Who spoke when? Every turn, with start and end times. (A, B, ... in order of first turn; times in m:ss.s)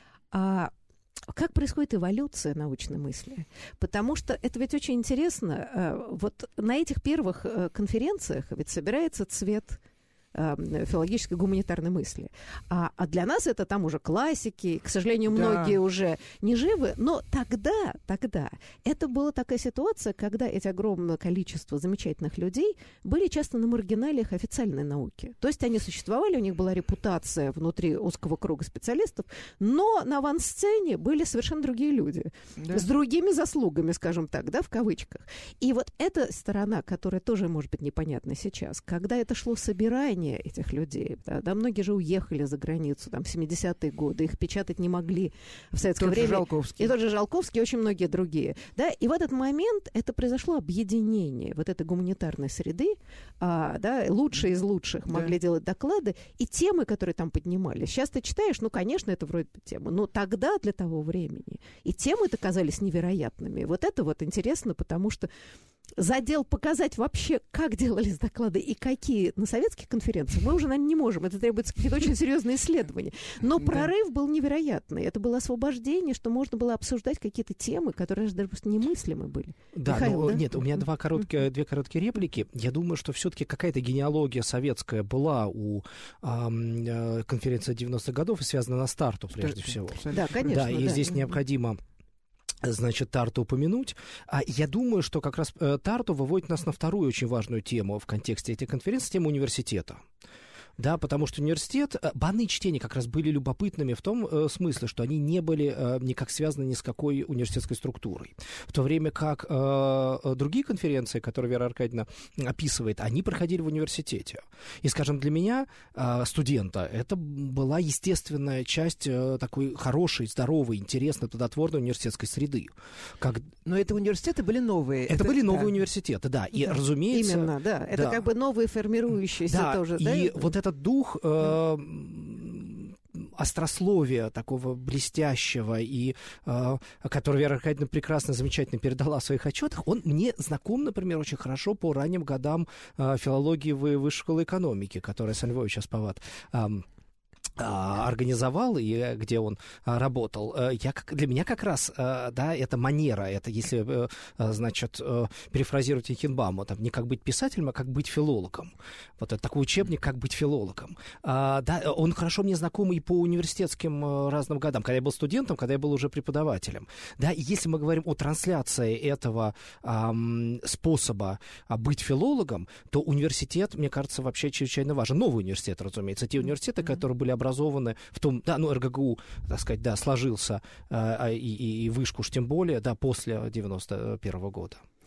0:00.3-0:00.7 A
0:01.3-0:09.8 A
0:10.3-1:05.3 A
0:15.3-0:15.8 B
0:32.6-0:32.9 B
0:46.0-0:46.9 B
0:55.1-0:55.3 B
1:06.0-1:20.8 A
1:13.6-1:13.9 B
1:19.7-1:31.8 C
1:29.4-1:30.9 B
1:30.1-1:31.2 A
1:32.6-1:40.0 C
1:40.8-2:03.5 C
2:03.6-2:05.7 B
2:05.1-2:08.2 C
2:07.1-2:10.5 A
2:09.5-2:26.8 C
2:27.6-3:04.8 C